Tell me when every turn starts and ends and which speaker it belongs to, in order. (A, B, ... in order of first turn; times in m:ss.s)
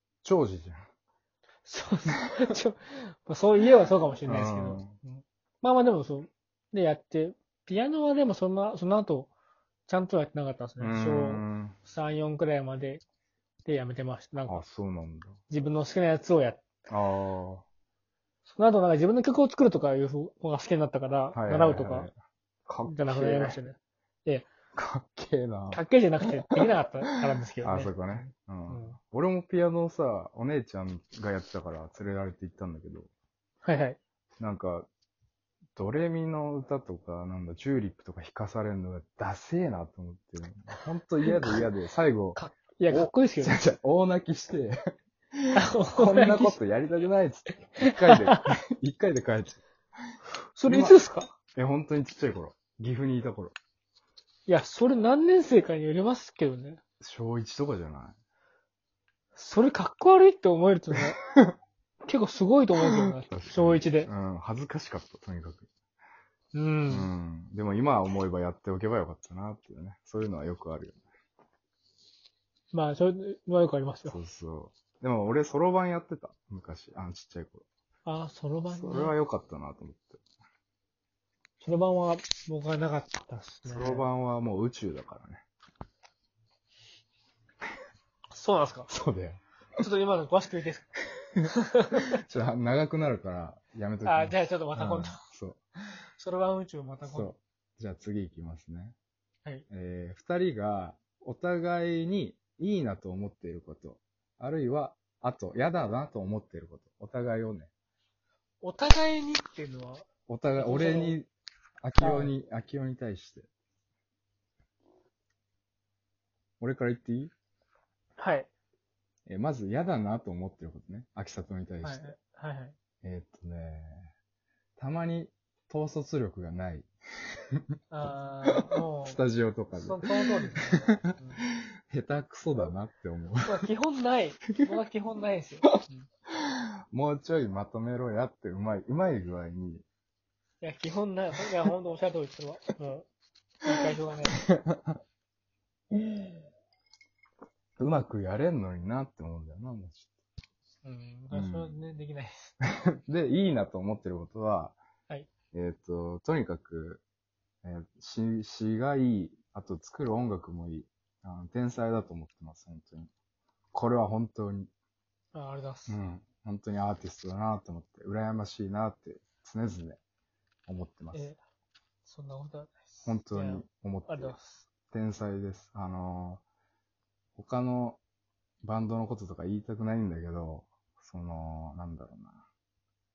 0:00.2-0:00.8 A
0:01.6-0:09.3 B
0:04.2-0:05.0 A
0:09.9-0:13.0 B
0:10.8-0:11.8 A
0:13.6-0:14.6 B
0:14.5-0:15.4 A
0:15.5-0:16.6 B
0:16.9-0:17.6 A
0:18.5-0:22.1 B
0:21.3-0:22.1 A
0:22.7-0:23.6 A
0:22.8-0:24.5 B
0:24.8-0:25.8 A
0:25.7-0:29.0 B
0:27.6-0:33.1 A
0:33.6-0:34.0 B
0:34.4-0:34.9 A
0:35.8-0:44.8 A
0:41.2-0:41.7 B
0:42.4-0:43.6 B
0:45.4-0:49.6 A
0:45.6-0:46.6 B
0:47.9-0:48.4 B
0:50.6-0:51.3 B
0:50.7-0:51.0 A
0:51.6-0:53.6 A
0:54.5-0:56.8 B
0:57.0-0:58.2 A
0:59.4-1:01.2 B
1:02.1-1:04.1 B
1:02.8-1:05.7 A
1:06.5-1:07.1 B
1:06.9-1:11.0 A
1:12.7-1:14.2 B
1:14.0-1:17.6 A
1:18.1-1:19.1 B
1:18.7-1:20.2 A
1:21.6-1:24.1 B
1:23.6-1:25.4 A
1:28.3-1:28.9 B
1:28.9-1:29.4 A
1:29.8-1:30.9 B
1:31.4-1:32.2 B
1:32.1-1:35.6 A
1:34.0-1:35.2 B
1:36.2-1:37.4 B
1:37.0-1:38.9 A
1:39.7-1:47.7 A
1:48.6-1:51.2 B
1:50.3-1:51.3 A
1:51.8-1:53.5 A
1:52.0-1:52.3 B
1:56.6-1:57.3 A
1:58.2-1:58.5 B
1:59.3-2:02.2 A
2:01.8-2:02.8 B
2:03.0-2:04.1 A
2:04.8-2:06.9 A
2:07.9-2:09.2 B
2:09.0-2:10.2 A
2:09.7-2:11.4 B
2:10.8-2:13.7 A
2:13.4-2:16.1 B
2:16.4-2:19.8 A
2:20.6-2:23.1 B
2:23.6-2:24.4 B
2:24.4-2:25.0 A
2:27.8-2:30.1 A
2:30.8-2:32.5 B
2:31.3-2:31.8 A
2:32.6-2:34.8 A
2:35.5-2:37.0 A
2:37.6-2:43.1 A
2:43.7-2:44.7 A
2:45.3-2:46.0 B
2:45.9-2:50.0 A
2:50.7-2:51.3 A
2:51.1-2:51.4 B
2:52.0-2:54.6 B
2:53.0-2:54.4 A
2:54.9-2:56.4 A
2:57.4-2:58.0 A
2:58.6-3:02.4 A